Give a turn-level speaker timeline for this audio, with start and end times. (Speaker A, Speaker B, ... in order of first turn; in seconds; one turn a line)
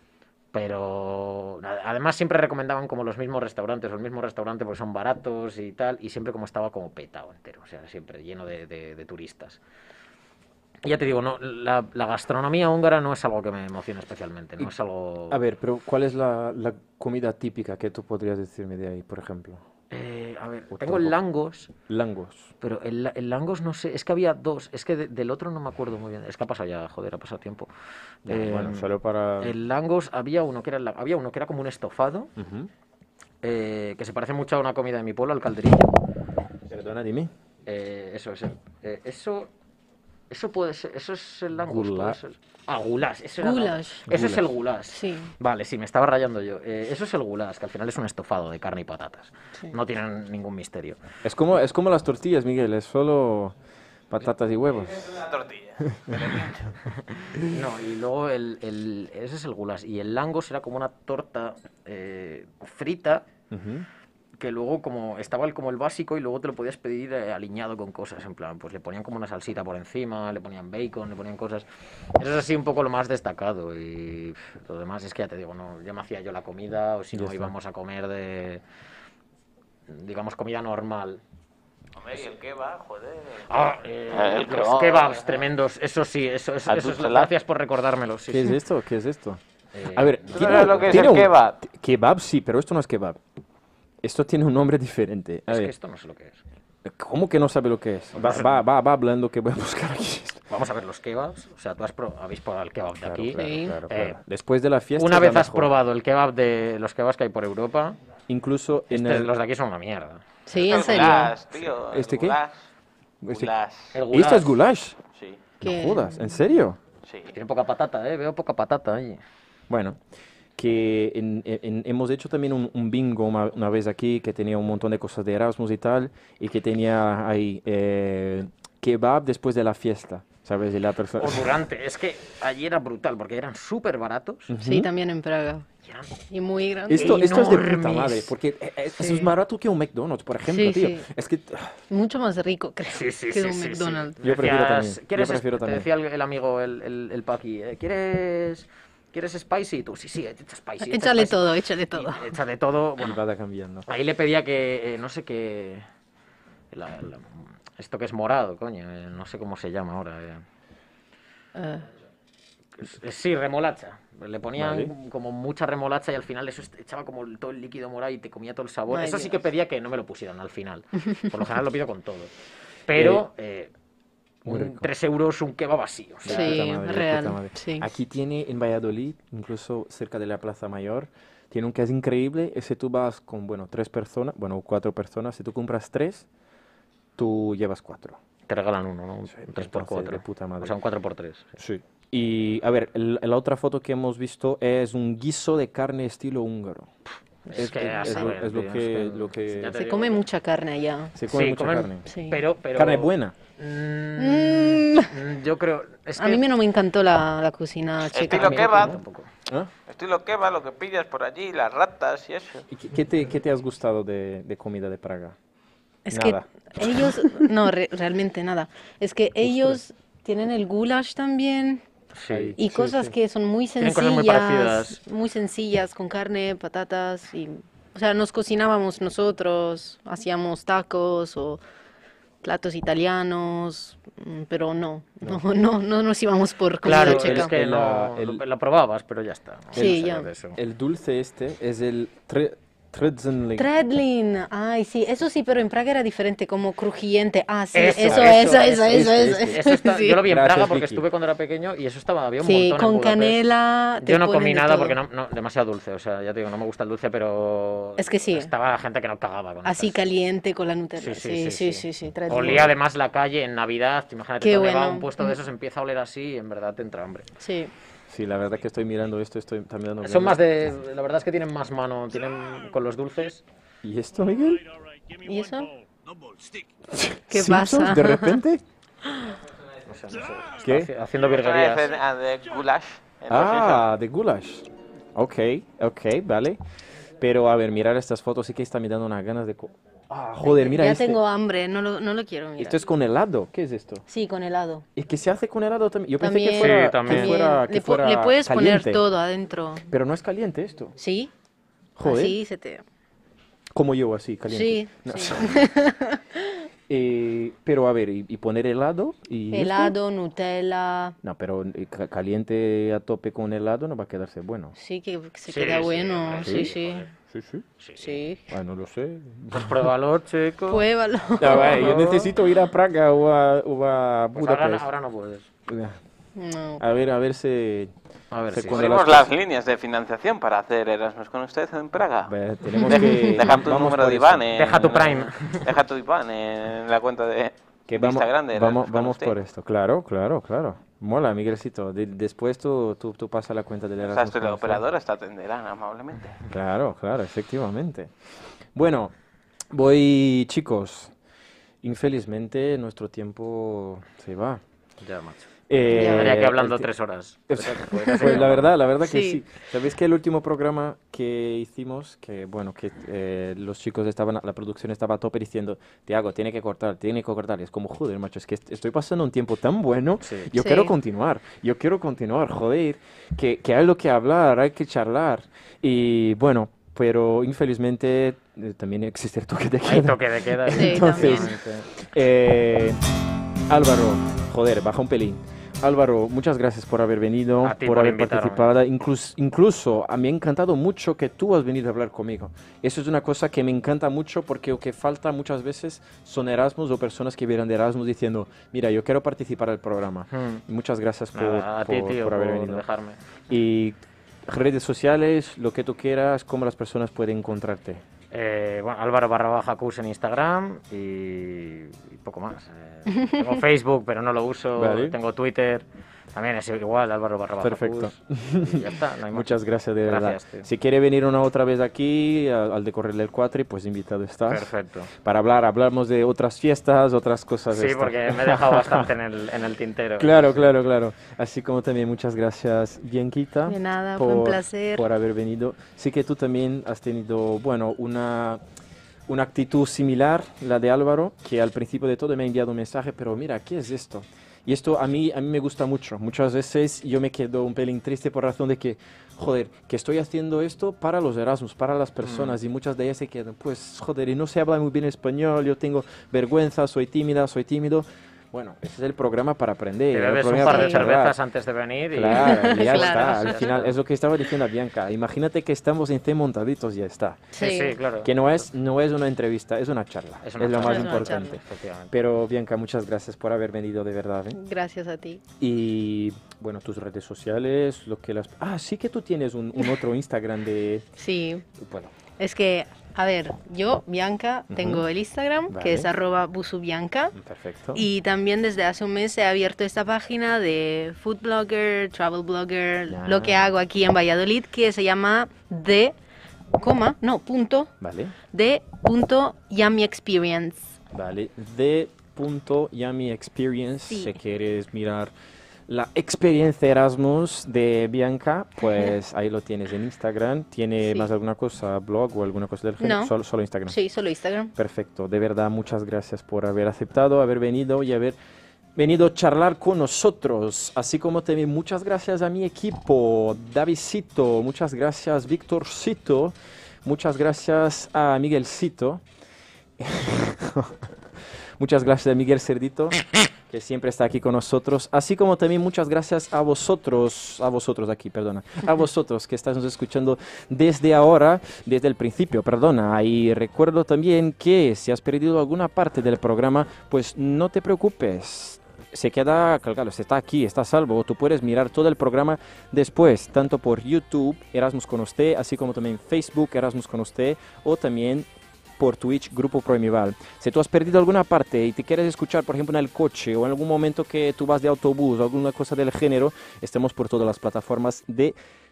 Speaker A: 0.5-9.6
Speaker A: 10.8-15.4
Speaker B: 15.3-19.6
Speaker A: 19.9-21.7
Speaker B: 20.7-21.1
Speaker B: 21.9-22.5
Speaker A: 22.6-27.7
Speaker A: 28.2-32.3
Speaker B: 28.3-29.5
Speaker B: 32.4-32.7
Speaker A: 33.4-36.0
Speaker B: 36.7-37.3
Speaker A: 37.6-39.5
Speaker A: 40.3-51.0
Speaker B: 41.6-42.2
Speaker C: 43.4-44.1
Speaker B: 44.1-44.5
Speaker C: 44.9-45.3
Speaker B: 51.2-53.5
Speaker B: 54.1-55.1
Speaker D: 54.9-56.8
Speaker A: 57.4-63.3
Speaker B: 63.5-63.9
Speaker A: 64.4-71.7
Speaker A: 72.2-78.6
Speaker B: 77.1-77.5
Speaker A: 79.9-81.2
Speaker D: 82.0-83.5
Speaker A: 83.5-88.6
Speaker D: 84.1-85.4
Speaker D: 86.7-87.3
Speaker B: 88.3-93.2
Speaker A: 89.7-91.2
Speaker D: 90.3-91.5
Speaker B: 94.0-95.7
Speaker A: 95.5-96.4
Speaker B: 96.8-100.5
Speaker A: 98.1-98.6
Speaker A: 100.5-104.2
Speaker B: 103.0-105.7
Speaker C: 103.4-103.7
Speaker A: 105.0-108.0
Speaker B: 108.3-109.3
Speaker A: 108.9-111.3
Speaker C: 110.5-111.3
Speaker D: 110.5-112.6
Speaker B: 111.9-112.4
Speaker B: 113.2-113.5
Speaker D: 113.3-114.0
Speaker A: 113.9-114.5
Speaker B: 114.1-115.0
Speaker D: 115.1-115.4
Speaker B: 115.6-116.8
Speaker C: 115.6-116.2
Speaker D: 117.0-117.3
Speaker A: 117.3-119.2
Speaker B: 119.7-120.0
Speaker B: 120.5-131.5
Speaker A: 131.2-134.5
Speaker B: 134.5-134.9
Speaker C: 134.6-137.3
Speaker A: 135.8-136.1
Speaker B: 136.9-141.7
Speaker A: 136.9-138.3
Speaker C: 139.0-139.3
Speaker C: 140.4-141.1
Speaker C: 141.9-144.2
Speaker A: 142.9-153.2
Speaker B: 144.2-145.9
Speaker C: 150.8-152.3
Speaker B: 153.0-153.9
Speaker A: 153.9-155.8
Speaker A: 156.7-160.4
Speaker C: 161.5-161.9
Speaker A: 162.8-172.3
Speaker B: 164.6-164.9
Speaker C: 168.9-169.3
Speaker A: 172.9-173.7
Speaker B: 172.9-173.3
Speaker B: 174.4-174.8
Speaker A: 174.4-176.6
Speaker B: 176.2-186.2
Speaker C: 176.2-177.9
Speaker B: 187.2-188.2
Speaker A: 188.5-191.5
Speaker B: 189.3-190.7
Speaker B: 191.6-196.9
Speaker A: 197.4-200.2
Speaker C: 197.5-198.3
Speaker B: 197.5-199.8
Speaker C: 199.7-201.1
Speaker B: 201.1-202.1
Speaker A: 201.3-206.4
Speaker C: 202.1-202.4
Speaker B: 202.7-203.3
Speaker C: 204.2-205.2
Speaker C: 206.2-208.8
Speaker D: 208.1-209.0
Speaker A: 208.2-209.3
Speaker D: 209.9-212.7
Speaker B: 212.7-215.3
Speaker C: 216.1-221.8
Speaker B: 216.1-217.2
Speaker B: 219.4-219.8
Speaker A: 222.1-222.6
Speaker B: 222.3-223.1
Speaker C: 222.6-231.6
Speaker A: 223.8-225.0
Speaker C: 232.4-237.5
Speaker A: 236.8-240.6
Speaker B: 236.8-238.4
Speaker C: 239.7-240.3
Speaker B: 240.5-243.7
Speaker C: 243.6-250.2
Speaker A: 247.7-253.4
Speaker B: 248.0-249.6
Speaker B: 250.2-251.0
Speaker C: 252.4-254.9
Speaker A: 254.0-260.0
Speaker C: 258.0-258.5
Speaker C: 259.6-262.7
Speaker A: 261.0-267.3
Speaker C: 264.4-265.3
Speaker C: 267.4-267.7
Speaker B: 268.1-270.4
Speaker A: 270.0-273.4
Speaker B: 273.8-274.6
Speaker C: 275.2-275.7
Speaker B: 276.9-278.6
Speaker C: 277.3-278.4
Speaker A: 279.8-281.9
Speaker B: 280.6-280.9
Speaker D: 281.3-283.9
Speaker B: 283.3-286.6
Speaker B: 287.2-291.2
Speaker C: 290.4-292.8
Speaker B: 292.6-294.0
Speaker C: 294.1-294.8
Speaker B: 294.9-299.0
Speaker C: 296.2-299.9
Speaker A: 296.6-297.4
Speaker B: 299.9-300.9
Speaker C: 301.0-301.3
Speaker B: 301.9-302.4
Speaker C: 302.0-302.8
Speaker B: 303.7-305.6
Speaker C: 304.5-306.6
Speaker B: 306.9-309.9
Speaker C: 309.5-311.2
Speaker B: 311.2-314.7
Speaker C: 314.7-317.1
Speaker A: 315.5-317.1
Speaker B: 316.4-316.7
Speaker B: 317.3-317.6
Speaker A: 317.8-318.2
Speaker C: 318.0-318.5
Speaker B: 318.5-319.9
Speaker A: 319.5-320.8
Speaker C: 320.7-322.0
Speaker B: 321.4-324.9
Speaker A: 321.4-322.3
Speaker A: 324.4-325.5
Speaker B: 325.7-326.0
Speaker C: 326.4-326.8
Speaker B: 326.8-327.9
Speaker A: 328.3-329.0
Speaker B: 328.5-329.3
Speaker D: 328.7-339.4
Speaker B: 332.2-334.9
Speaker A: 334.5-335.7
Speaker B: 337.9-344.8
Speaker D: 344.0-346.4
Speaker B: 346.5-348.1
Speaker B: 348.7-349.1
Speaker B: 349.7-351.1
Speaker B: 351.8-354.6
Speaker A: 355.0-358.7
Speaker B: 355.7-356.9
Speaker C: 355.9-356.4
Speaker B: 357.5-383.0
Speaker C: 358.1-358.4
Speaker C: 359.0-359.4
Speaker C: 370.5-370.9
Speaker A: 379.8-381.9
Speaker C: 380.7-381.5
Speaker B: 383.7-402.8
Speaker A: 387.6-388.7
Speaker A: 400.3-400.6
Speaker A: 401.3-403.2
Speaker B: 403.5-408.0
Speaker A: 408.3-420.7
Speaker C: 413.1-413.4
Speaker B: 414.7-415.2
Speaker B: 417.6-429.1
Speaker A: 424.5-425.1
Speaker A: 427.7-430.6
Speaker B: 430.2-438.6
Speaker C: 433.6-435.0
Speaker B: 439.3-461.4
Speaker A: 452.2-452.6
Speaker A: 460.1-463.9
Speaker C: 460.6-461.0
Speaker B: 462.1-467.6
Speaker C: 462.3-463.6
Speaker C: 467.5-467.9
Speaker A: 467.6-468.6
Speaker B: 468.2-474.6
Speaker A: 470.4-472.1
Speaker C: 470.8-471.6
Speaker C: 474.5-475.4
Speaker B: 475.6-481.1
Speaker C: 481.2-481.6
Speaker B: 481.8-482.1
Speaker C: 482.4-487.4
Speaker B: 484.7-485.1
Speaker B: 485.7-486.1
Speaker B: 487.4-488.1
Speaker C: 487.9-496.1
Speaker B: 493.1-493.7
Speaker C: 496.8-497.9
Speaker B: 498.0-498.3
Speaker C: 498.5-500.9
Speaker B: 501.1-505.3
Speaker B: 505.9-514.0
Speaker C: 511.0-511.3
Speaker C: 513.0-513.3
Speaker C: 513.9-514.7
Speaker B: 514.7-518.4
Speaker B: 518.9-529.2
Speaker B: 530.0-531.0
Speaker B: 531.8-558.5
Speaker B: 559.0-568.5